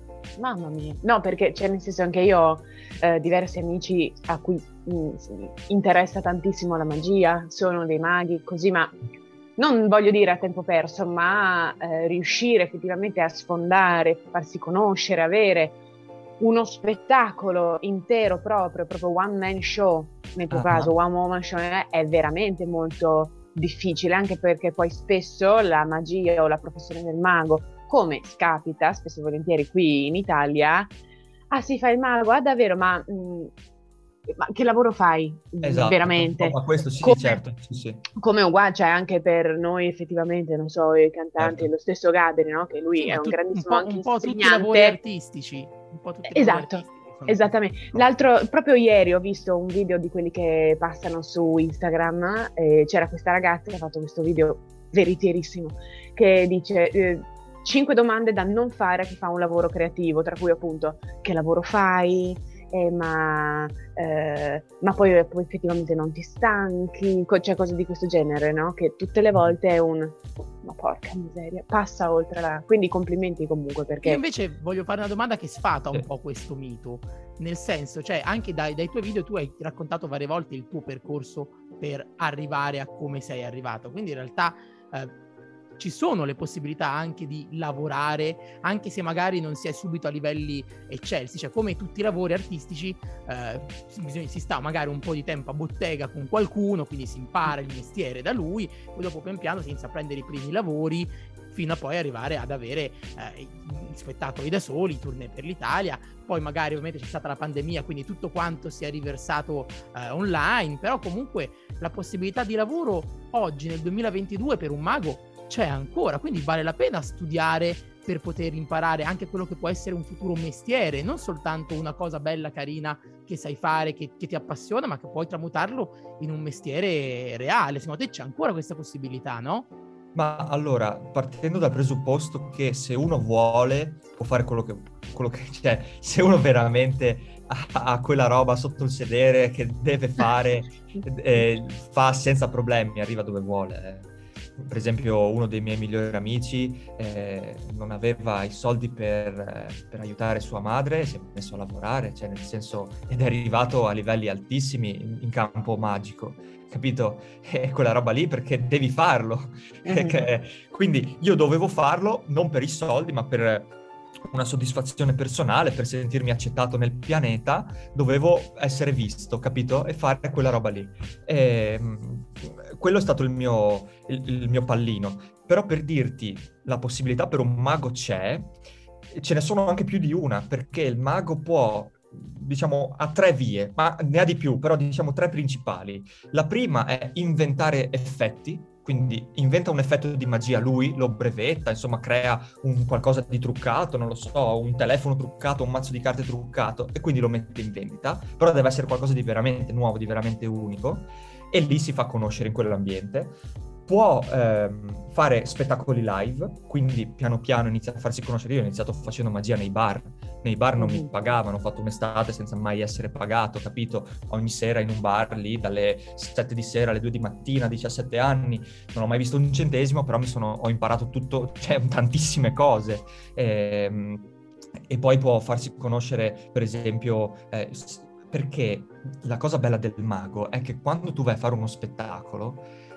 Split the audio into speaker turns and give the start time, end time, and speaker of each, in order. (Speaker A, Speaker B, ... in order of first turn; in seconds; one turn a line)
Speaker A: 0.4-8.9
Speaker A: 9.6-15.8
Speaker A: 16.4-30.9
Speaker B: 20.5-20.9
Speaker A: 31.5-33.5
Speaker A: 34.3-37.4
Speaker B: 35.6-38.0
Speaker A: 38.2-45.0
Speaker B: 41.4-41.7
Speaker C: 43.0-48.1
Speaker A: 46.3-74.2
Speaker C: 74.0-85.1
Speaker C: 85.8-129.7
Speaker B: 130.1-163.7
Speaker A: 159.9-160.2
Speaker B: 164.3-178.5
Speaker B: 179.1-224.3
Speaker A: 210.8-211.1
Speaker B: 224.9-232.7